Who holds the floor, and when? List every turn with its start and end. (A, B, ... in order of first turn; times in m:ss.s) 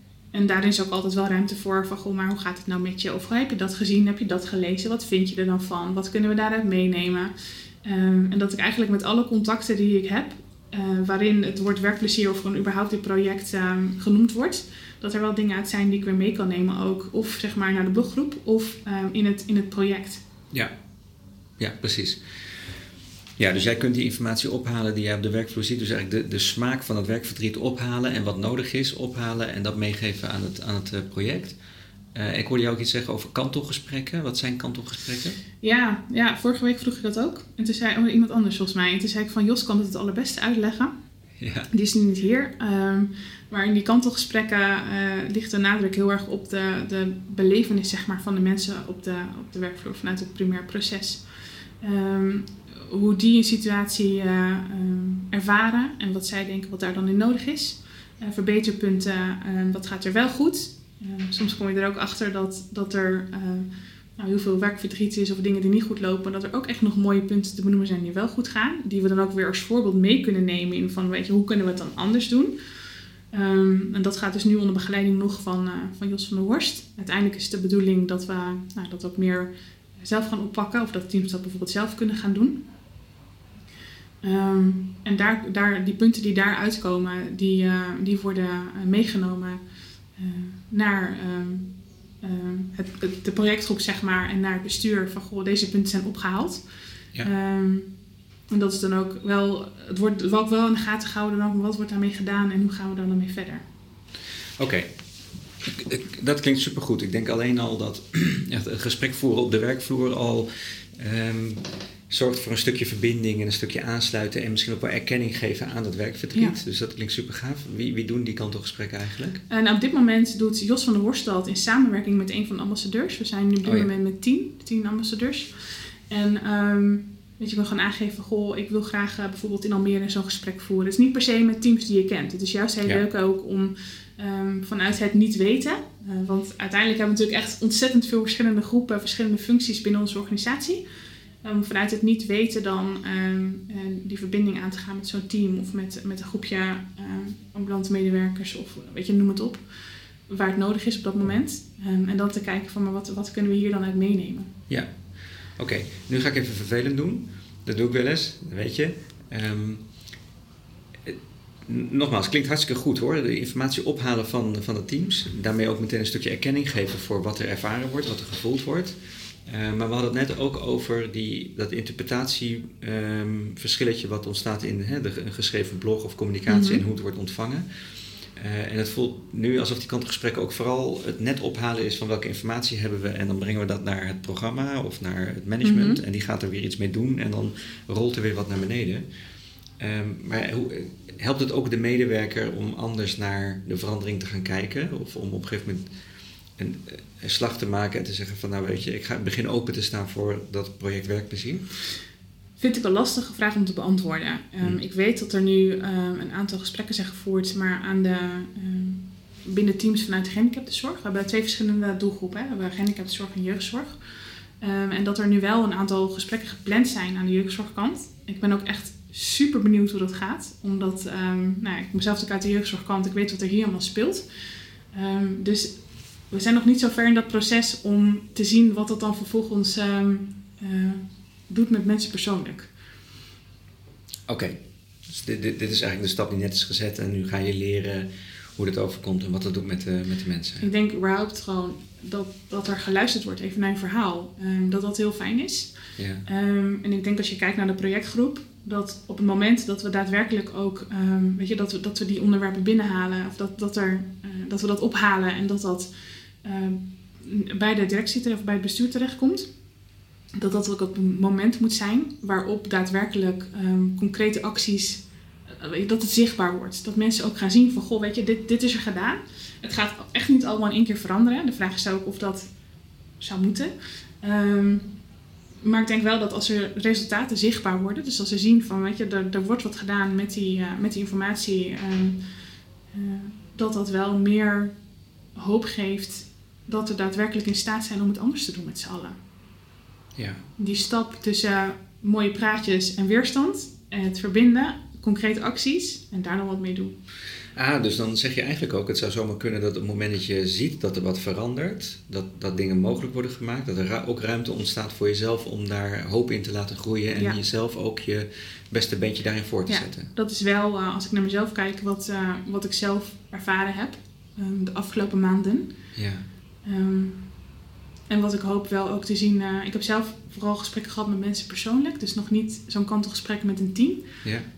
0:00.3-0:20.2 A
0:21.6-0:22.2 B
0:23.4-0:31.6 B
0:32.1-0:35.4 B
0:35.6-0:40.9 A
0:41.4-0:41.7 B
0:41.7-0:51.2 A
0:51.8-1:12.5 A
1:13.3-1:22.6 A
1:24.2-1:29.6 A
1:30.2-1:36.6 A
1:37.2-1:37.9 A
1:38.5-1:43.6 A
1:44.6-1:44.9 B
1:45.6-1:59.4 B
1:59.5-2:20.8 A
2:03.6-2:03.9 B
2:21.4-2:29.6 A
2:30.3-2:34.5 A
2:35.6-2:39.8 B
2:41.0-2:48.9 B
2:49.5-2:57.6 B
2:56.5-2:56.8 A
2:58.4-3:09.0 B
3:05.6-3:06.0 A
3:09.8-3:15.9 B
3:16.6-3:21.6 B
3:22.6-3:34.0 A
3:34.6-3:44.2 A
3:44.9-3:45.8 A
3:46.3-3:52.7 A
3:54.3-4:00.7 B
4:00.6-4:05.7 A
4:06.0-4:06.2 B
4:06.2-4:15.9 A
4:16.4-4:19.5 A
4:20.4-4:32.4 A
4:33.2-4:34.9 A
4:35.6-4:42.2 A
4:42.9-4:44.7 A
4:45.3-4:49.2 A
4:50.2-4:50.4 B
4:50.6-4:57.0 A
4:57.6-5:10.1 B
5:09.7-5:15.7 A
5:15.9-5:16.2 B
5:16.6-5:17.2 A
5:18.1-5:24.1 A